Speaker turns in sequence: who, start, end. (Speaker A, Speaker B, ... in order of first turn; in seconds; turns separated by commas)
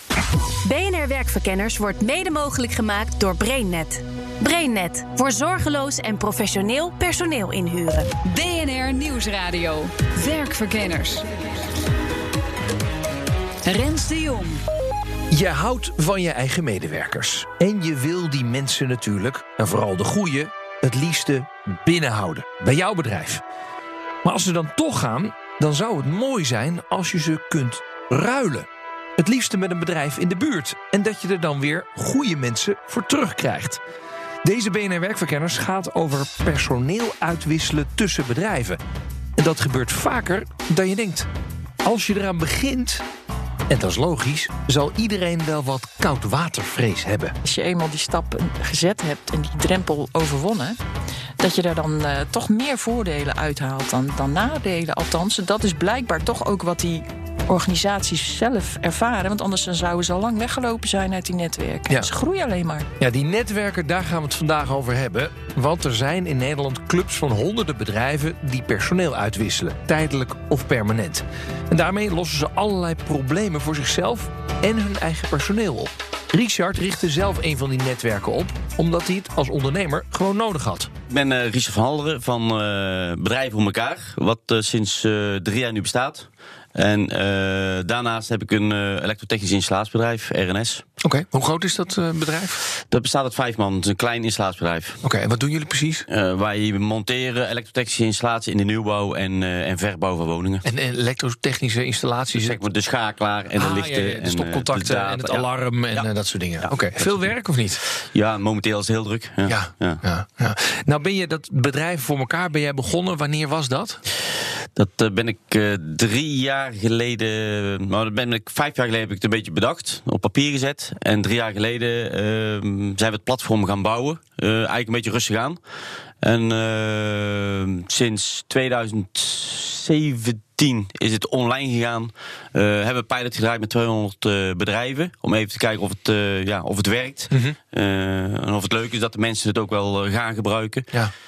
Speaker A: 0.6-8.1, Speaker B: 8.2-11.2, Speaker B: 13.6-14.6, Speaker C: 15.3-23.4, Speaker C: 24.2-33.8, Speaker C: 34.4-38.8, Speaker C: 39.4-41.3, Speaker C: 41.8-43.0, Speaker C: 43.7-47.3, Speaker D: 47.4-50.8, Speaker D: 51.4-62.9, Speaker C: 63.0-80.9, Speaker E: 81.1-90.8, Speaker C: 91.0-92.6, Speaker E: 92.9-95.0, Speaker C: 95.0-96.0, Speaker E: 96.1-100.6, Speaker C: 100.6-102.6, Speaker E: 102.3-106.1, Speaker C: 103.5-107.8, Speaker E: 106.6-107.2, Speaker E: 108.1-110.0, Speaker C: 109.4-114.0, Speaker E: 114.8-125.6, Speaker E: 126.2-140.8, Speaker C: 137.3-137.6